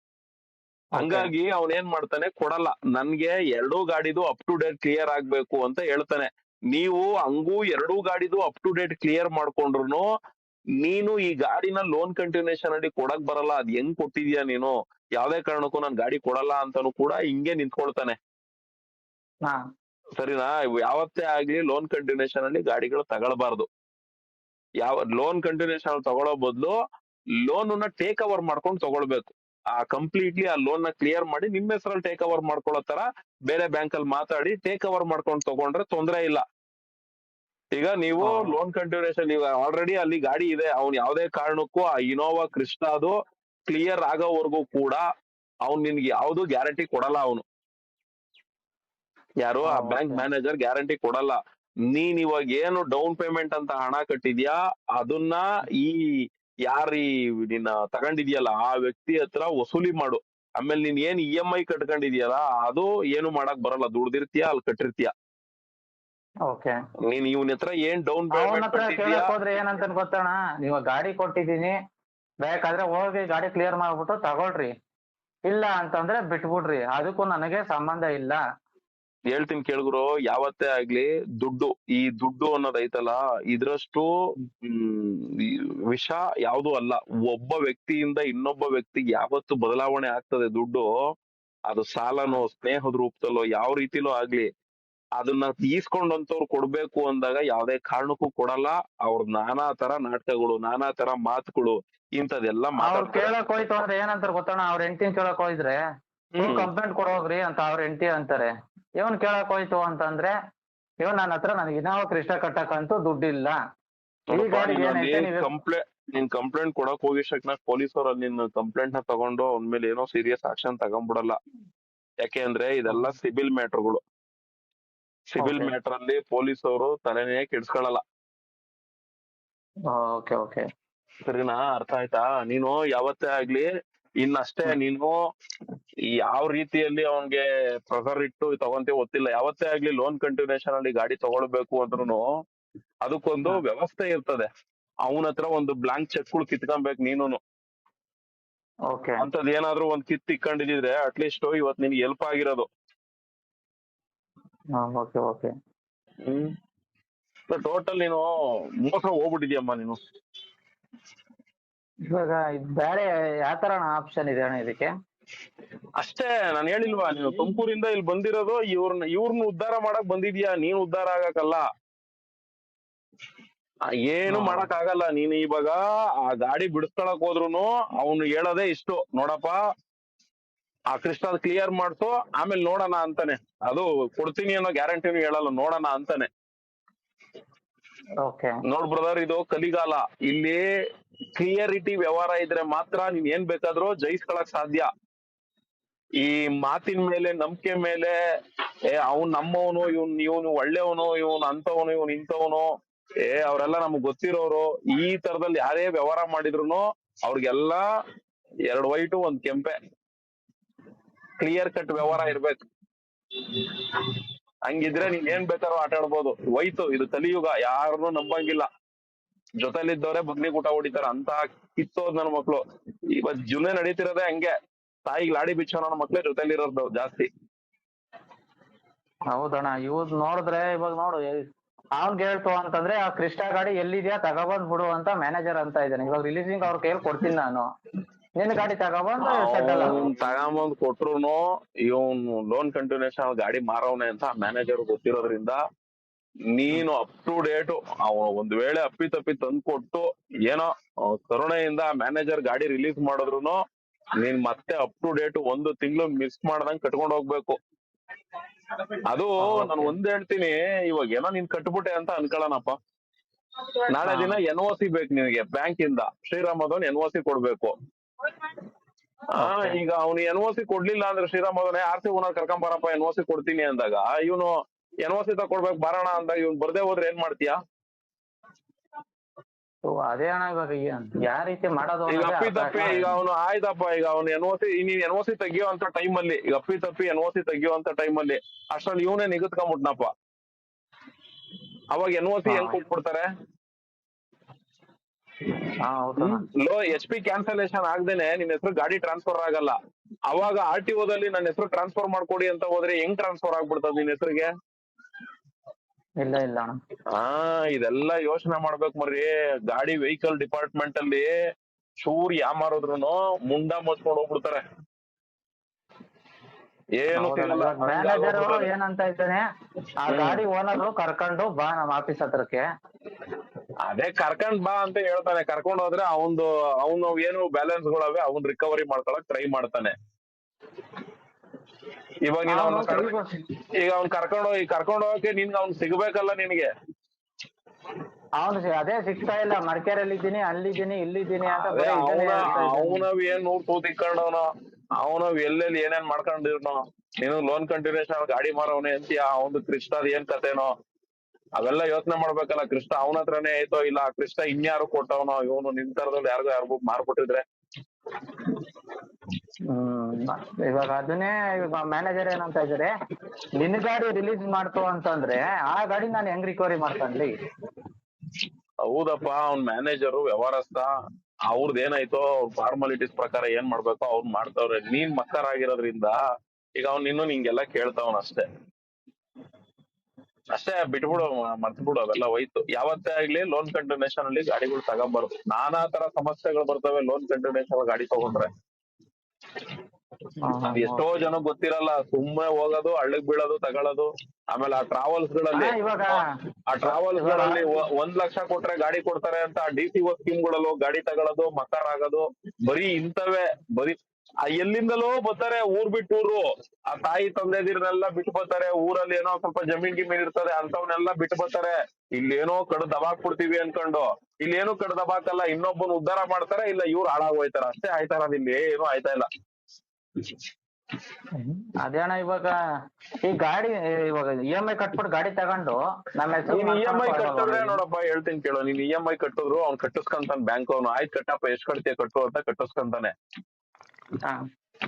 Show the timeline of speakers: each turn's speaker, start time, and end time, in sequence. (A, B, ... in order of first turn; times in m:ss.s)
0:01.0-0:01.3 A
0:01.0-0:10.1 B
0:10.8-0:18.2 B
0:20.2-0:23.7 B
0:24.8-0:26.8 B
0:27.4-0:36.4 B
0:37.8-0:43.2 B
0:38.2-0:38.6 A
0:43.7-0:45.0 B
0:45.7-0:47.4 B
0:49.4-0:51.4 B
0:49.6-0:50.2 A
0:51.9-0:56.0 B
0:56.7-1:05.1 B
1:07.1-1:09.3 B
1:08.3-1:11.8 A
1:12.5-1:14.7 A
1:15.5-1:18.4 A
1:19.3-1:24.1 B
1:24.6-1:30.9 B
1:31.7-1:34.5 B
1:35.2-1:43.4 B
1:42.8-1:45.8 A
1:46.4-1:46.7 B
1:46.4-1:50.3 A
1:51.0-1:53.6 A
1:54.3-2:01.4 B
1:54.3-1:55.5 A
2:02.2-2:04.0 B
2:05.3-2:08.0 B
2:05.4-2:05.7 A
2:09.9-2:10.6 A
2:11.3-2:13.7 B
2:14.2-2:15.2 B
2:16.1-2:22.3 B
2:23.0-2:24.5 B
2:25.1-2:27.4 B
2:28.9-2:29.2 A
2:29.2-2:32.7 B
2:34.8-2:35.5 A
2:36.3-2:36.5 B
2:37.5-2:38.3 B
2:38.8-2:40.0 B
2:42.1-2:44.9 A
2:46.0-2:51.6 B
2:53.9-2:59.6 B
2:54.3-2:54.7 A
3:00.9-3:06.3 B
3:08.2-3:08.6 A
3:08.7-3:10.6 B
3:11.4-3:14.9 B
3:16.2-3:18.1 B
3:18.9-3:22.7 B
3:23.2-3:27.8 B
3:28.7-3:29.8 B
3:31.4-3:32.6 B
3:32.0-3:32.3 A
3:33.5-3:38.7 B
3:39.6-3:44.5 B
3:45.1-3:47.3 B
3:49.3-3:51.3 A
3:52.0-3:57.7 A
3:58.4-3:59.9 A
3:59.2-4:05.6 B
4:06.5-4:13.6 B
4:14.2-4:17.6 B
4:19.1-4:22.8 B
4:19.4-4:20.0 A
4:23.9-4:27.8 B
4:24.0-4:24.4 A
4:29.4-4:29.8 A
4:29.4-4:34.5 B
4:35.0-4:37.6 B
4:39.9-4:43.2 A
4:42.1-4:50.1 B
4:51.9-4:53.3 B
4:52.5-4:52.8 A
4:55.8-4:56.4 A
4:56.2-4:59.8 B
5:00.3-5:04.5 B
5:06.2-5:06.8 A
5:07.1-5:11.3 B
5:12.0-5:14.6 B
5:17.0-5:18.6 B
5:17.1-5:19.4 A
5:20.0-5:22.6 A
5:20.1-5:20.4 B
5:23.9-5:29.9 B
5:32.2-5:33.1 B
5:32.5-5:33.4 A
5:33.8-5:36.7 B
5:38.4-5:43.0 A
5:41.4-5:44.5 B
5:45.0-5:50.7 B
5:51.6-5:57.4 B
5:59.7-6:02.9 A
6:03.6-6:07.3 A
6:08.8-6:10.9 B
6:11.5-6:16.2 B
6:16.8-6:18.5 B
6:20.5-6:28.5 B
6:30.4-6:31.0 A
6:30.7-6:36.2 B
6:35.5-6:36.2 A
6:36.7-6:59.3 B
6:36.9-6:37.6 A
7:01.4-7:02.6 A
7:03.2-7:07.8 A
7:06.5-7:13.1 B